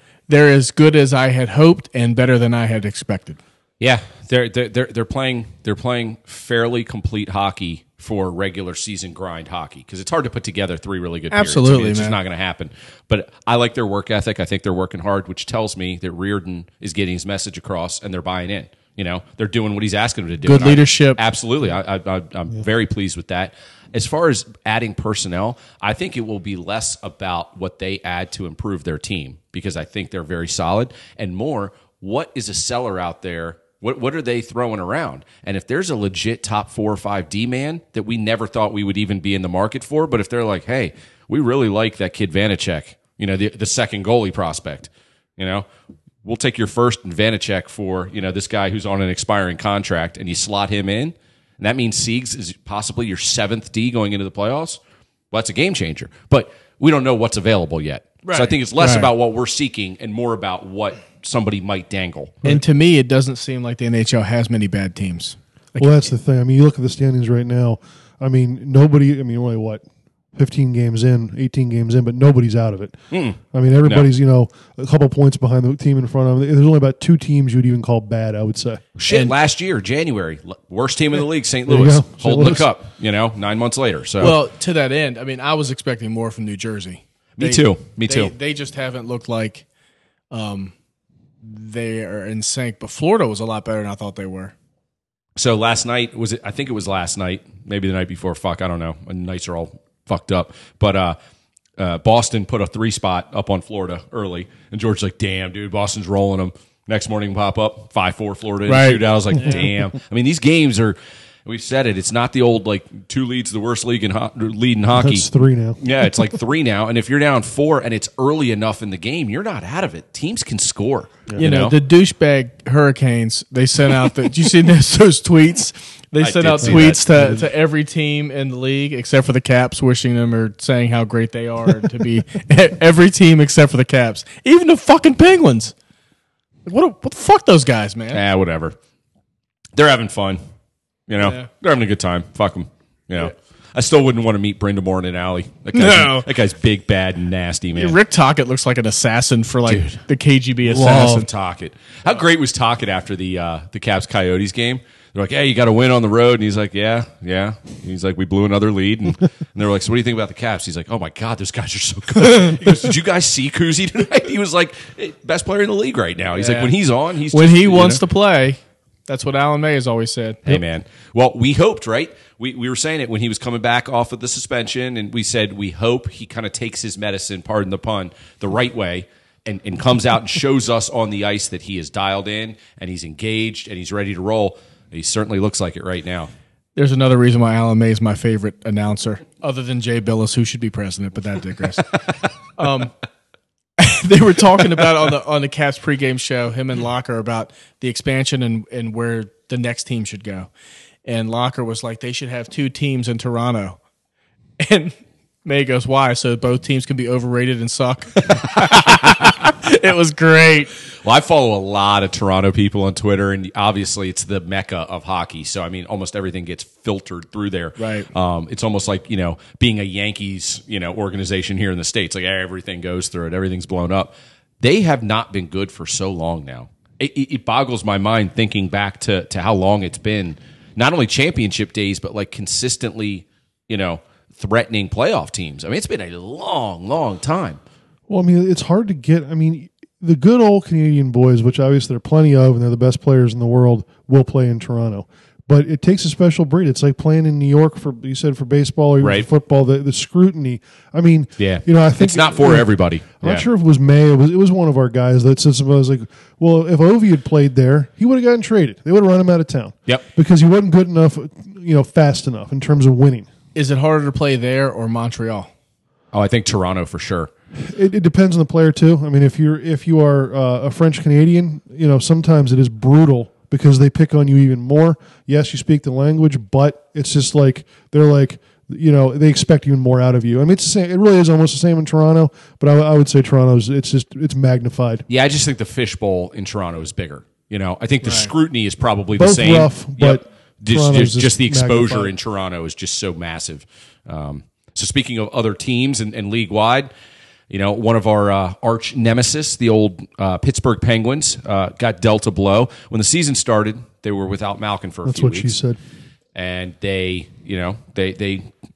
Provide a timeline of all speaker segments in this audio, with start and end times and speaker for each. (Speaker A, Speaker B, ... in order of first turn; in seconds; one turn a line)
Speaker A: 0.3-3.4
Speaker B: 3.8-45.6
Speaker A: 11.3-12.2
Speaker A: 20.4-21.2
Speaker B: 46.2-54.8
Speaker B: 55.3-62.4
Speaker A: 58.2-59.1
Speaker A: 62.4-66.1
Speaker C: 65.8-69.8
Speaker C: 70.3-72.9
Speaker B: 73.1-74.1
Speaker C: 73.5-78.8
Speaker B: 79.0-84.4
Speaker C: 81.7-82.7
Speaker A: 84.2-89.7
Speaker B: 87.4-88.3
Speaker A: 90.3-90.7
Speaker A: 91.4-94.5
Speaker B: 95.4-101.2
Speaker B: 101.8-115.3
Speaker A: 108.7-109.6
Speaker C: 115.0-115.8
Speaker B: 115.8-121.8
Speaker A: 121.4-135.7
Speaker B: 126.2-127.0
Speaker C: 126.7-127.4
Speaker A: 136.7-138.2
Speaker B: 138.1-138.8
Speaker B: 139.8-140.4
Speaker B: 141.1-148.0
Speaker A: 141.2-141.5
Speaker A: 145.7-146.3
Speaker A: 147.8-151.3
Speaker B: 149.7-150.0
Speaker B: 150.6-168.0
Speaker A: 166.3-166.7
Speaker A: 167.3-170.6
Speaker B: 170.5-186.3
Speaker A: 186.8-191.9
Speaker A: 192.6-192.9
Speaker A: 193.8-200.5
Speaker A: 201.1-203.8
Speaker A: 204.6-210.7
Speaker B: 208.3-209.3
Speaker B: 211.0-237.6
Speaker A: 217.8-218.1
Speaker C: 238.1-263.3
Speaker B: 249.0-249.3
Speaker B: 251.4-253.4
Speaker A: 263.6-265.5
Speaker B: 266.1-267.3
Speaker C: 267.6-285.1
Speaker B: 285.1-296.9
Speaker A: 288.0-288.3
Speaker C: 289.2-292.1
Speaker B: 297.5-305.5
Speaker C: 305.1-305.8
Speaker B: 306.4-308.5